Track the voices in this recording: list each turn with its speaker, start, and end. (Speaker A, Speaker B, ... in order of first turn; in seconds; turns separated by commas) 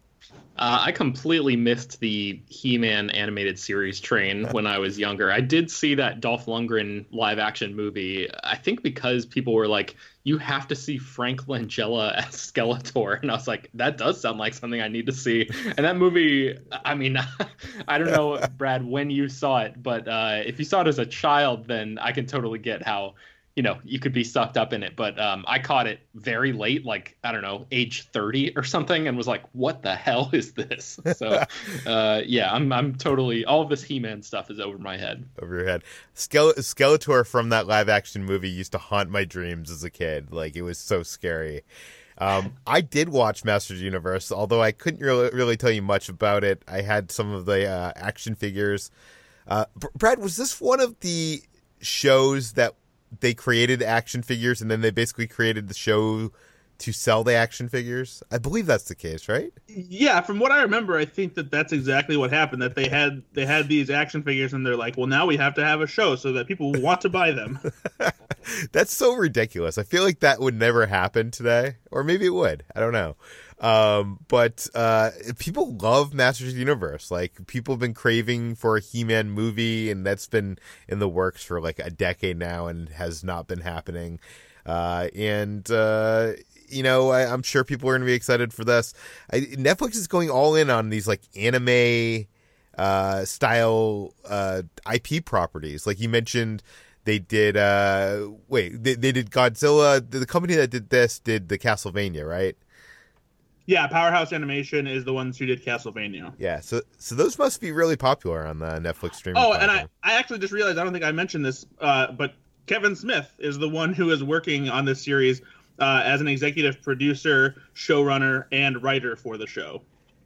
Speaker A: 0.6-35.3, Speaker B: 35.4-41.6, Speaker B: 42.2-48.9, Speaker B: 49.5-59.5, Speaker C: 59.7-67.7, Speaker B: 68.0-102.6, Speaker C: 103.7-106.3, Speaker B: 106.4-109.9, Speaker C: 109.3-119.8